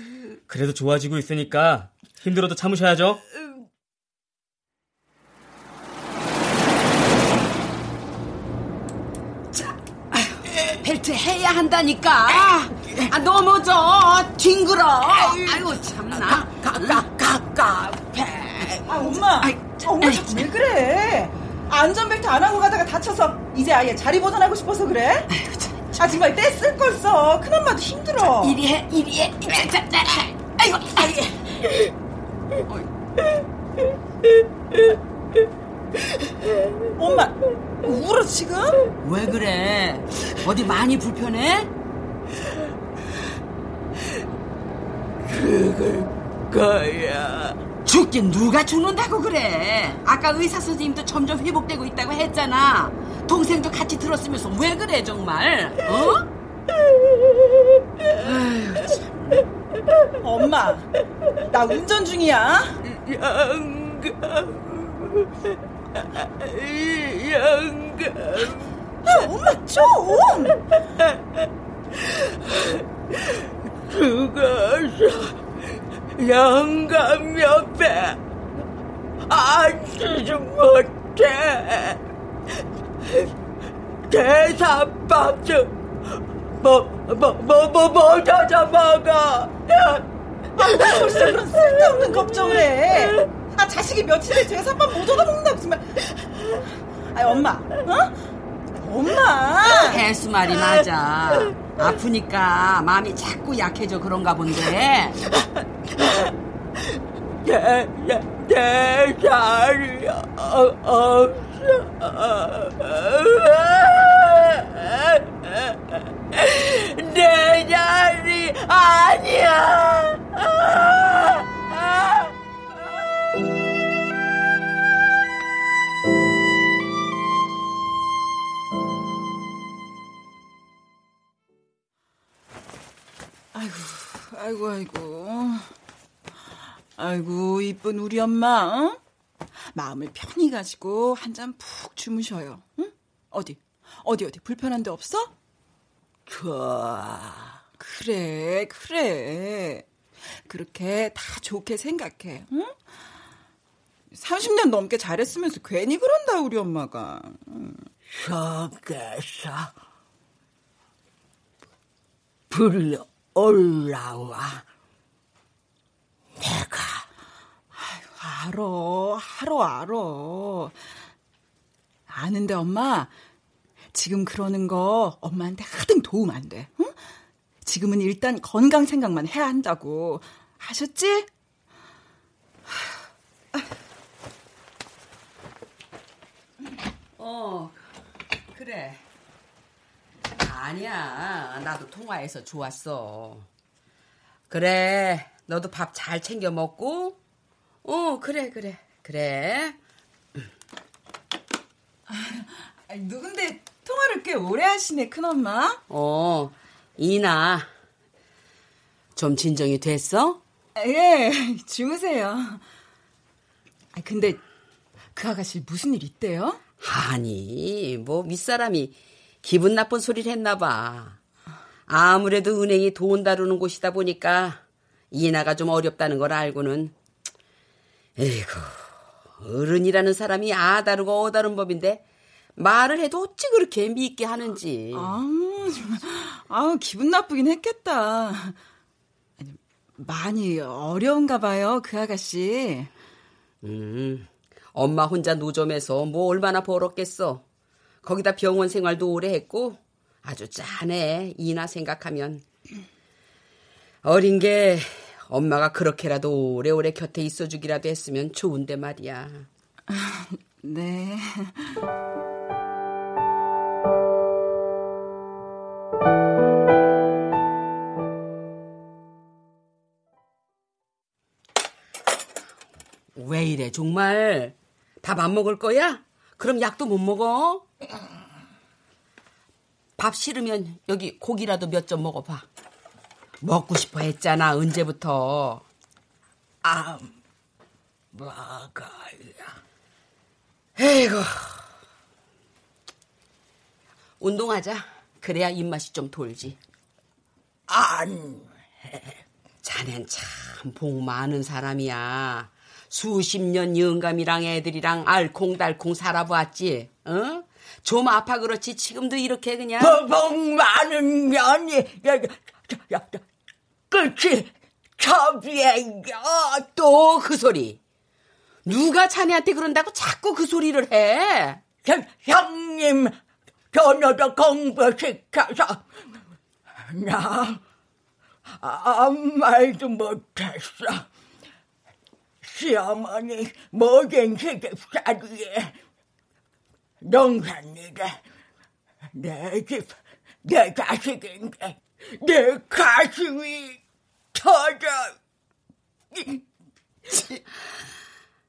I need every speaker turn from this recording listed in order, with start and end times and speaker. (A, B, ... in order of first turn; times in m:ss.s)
0:00.5-0:03.2 A
0:09.5-0:17.1 B
0:15.0-0:20.3 C
0:18.8-0:25.3 D
0:25.4-0:25.9 B
0:26.0-0:28.6 D
0:28.2-0:31.2 B
0:37.0-0:38.8 D
0:39.0-0:41.7 B
0:45.2-0:47.6 C
0:47.9-0:56.3 B
0:58.2-0:59.4 B
1:00.2-1:00.9 D
1:01.5-1:02.8 D
1:02.8-1:09.2 C
1:09.0-1:10.6 D
1:11.0-1:15.4 C
1:16.2-1:18.2 C
1:19.3-1:22.0 C
1:24.1-1:30.0 C
1:30.6-1:36.0 D
1:30.8-1:32.3 C
1:37.1-1:38.1 D
1:38.8-1:40.1 D
1:39.8-1:45.2 B
1:46.0-1:46.3 C
1:47.4-2:02.3 C
2:13.5-2:15.7 D
2:17.0-2:19.0 D
2:19.7-2:25.3 D
2:26.3-2:27.6 C
2:27.8-2:29.9 D
2:30.4-2:32.8 D
2:34.1-2:37.8 D
2:38.1-2:39.7 C
2:42.5-2:44.6 C
2:46.4-2:47.1 C
2:47.8-2:50.7 D
2:52.1-2:53.1 D
2:53.9-2:56.9 D
2:57.6-3:01.3 D
3:07.2-3:07.8 B
3:08.5-3:09.0 B
3:10.4-3:13.5 B
3:14.5-3:17.2 B
3:17.8-3:19.8 B
3:22.1-3:25.8 D
3:25.9-3:27.7 B
3:29.2-3:30.4 B
3:30.8-3:32.6 D
3:33.9-3:34.4 D
3:35.2-3:36.6 D
3:36.8-3:41.2 B
3:41.9-3:46.9 B
3:48.2-3:52.0 B
3:52.6-3:55.2 B
3:54.9-3:58.6 D
3:59.4-4:02.9 D
4:03.6-4:07.4 B
4:08.0-4:12.5 B
4:14.0-4:19.5 B
4:19.9-4:21.8 D
4:33.2-4:37.7 B
4:40.0-4:42.5 B
4:43.4-4:45.6 B
4:46.6-4:47.1 C
4:48.1-4:49.5 C
4:50.8-4:51.6 B
4:54.2-4:56.6 B
4:57.7-4:59.0 C
4:59.6-5:10.0 B
5:09.8-5:13.2 C
5:13.9-5:16.7 C
5:16.8-5:17.8 B
5:18.7-5:21.6 B
5:21.8-5:23.1 C
5:23.7-5:25.8 C
5:26.9-5:27.6 C
5:28.5-5:31.1 C
5:32.4-5:35.7 C
5:37.0-5:38.2 C
5:39.1-5:39.9 C
5:40.4-5:43.8 C
5:44.3-5:45.2 C
5:46.1-5:46.4 C
5:47.1-5:47.4 C